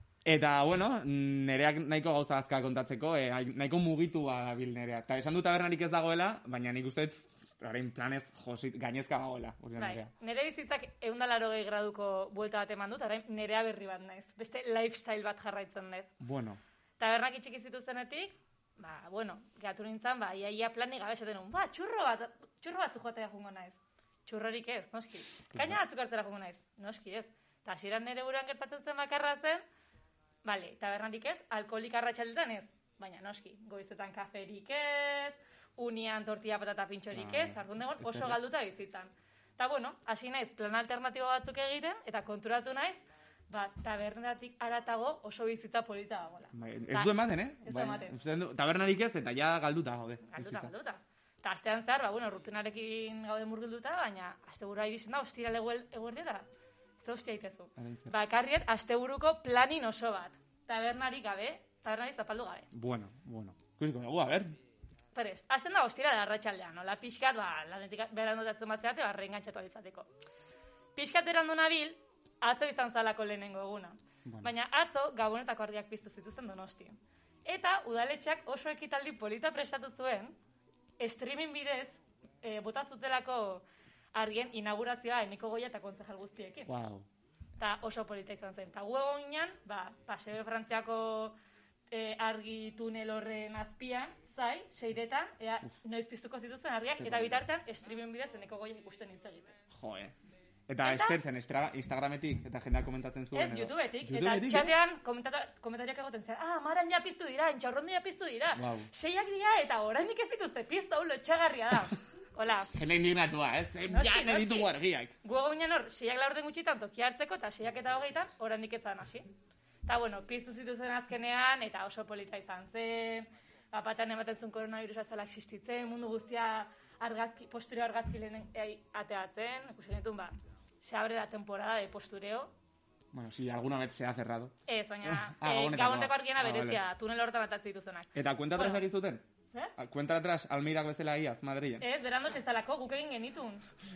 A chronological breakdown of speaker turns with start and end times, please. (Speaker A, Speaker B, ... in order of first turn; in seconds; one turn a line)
Speaker A: 0.2-10.1
Speaker B: 9.8-16.1
Speaker A: 16.2-16.6
Speaker B: 17.0-29.6
Speaker A: 25.5-25.8
Speaker B: 30.4-48.2
Speaker A: 37.1-38.4
Speaker A: 46.5-50.7
Speaker B: 50.2-56.5
Speaker B: 57.0-62.7
Speaker A: 57.8-58.1
Speaker A: 62.7-64.6
Speaker B: 65.2-70.1
Speaker B: 71.0-80.4
Speaker A: 74.3-74.5
Speaker B: 81.0-86.7
Speaker A: 86.7-87.1
Speaker B: 87.6-91.3
Speaker B: 91.9-99.6
Speaker A: 97.0-97.4
Speaker A: 99.7-100.2
Speaker A: 100.7-104.8
Speaker B: 100.8-101.2
Speaker B: 103.3-112.8
Speaker A: 108.5-108.9
Speaker A: 112.7-115.1
Speaker B: 113.9-119.3
Speaker B: 119.9-132.5
Speaker A: 133.1-136.8
Speaker B: 134.7-138.8
Speaker A: 138.1-139.2
Speaker A: 139.8-141.9
Speaker B: 141.8-143.7